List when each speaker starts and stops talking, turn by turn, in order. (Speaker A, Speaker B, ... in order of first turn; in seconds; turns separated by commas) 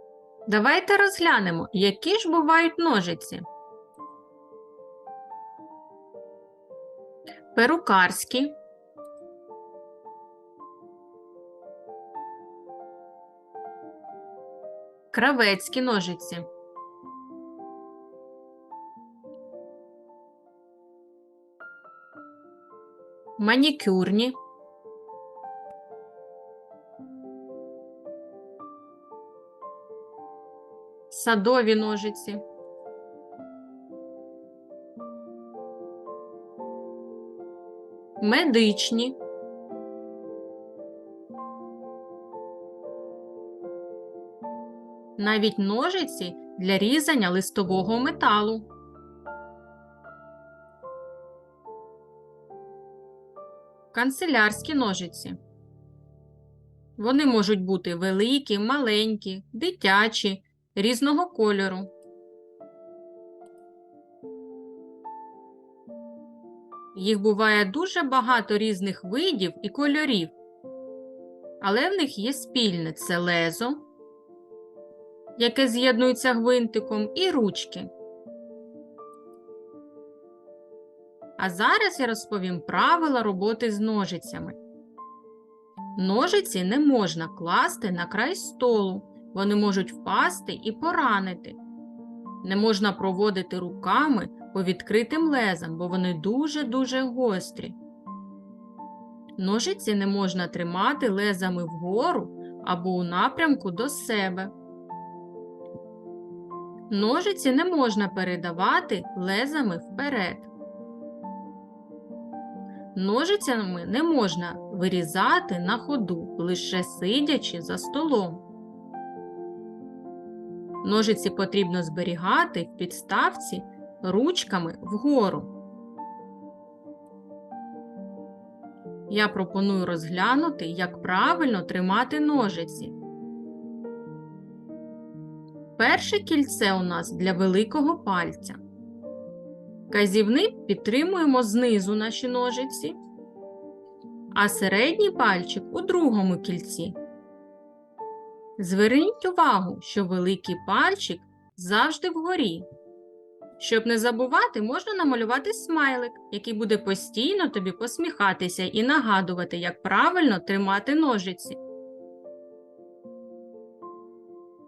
Speaker A: 0.5-3.5, Speaker A: 7.5-8.6, Speaker A: 15.1-16.5, Speaker A: 23.4-24.4, Speaker A: 31.1-32.4, Speaker A: 38.2-39.2, Speaker A: 45.2-48.7, Speaker A: 53.9-55.4, Speaker A: 57.0-61.9, Speaker A: 66.9-70.3, Speaker A: 71.6-73.9, Speaker A: 75.4-77.9, Speaker A: 81.4-84.6, Speaker A: 86.0-91.6, Speaker A: 92.4-97.8, Speaker A: 99.4-104.5, Speaker A: 106.9-110.5, Speaker A: 113.0-118.4, Speaker A: 120.8-125.5, Speaker A: 129.1-132.9, Speaker A: 135.8-138.6, Speaker A: 139.9-142.9, Speaker A: 144.3-147.0, Speaker A: 148.6-152.7, Speaker A: 153.6-161.6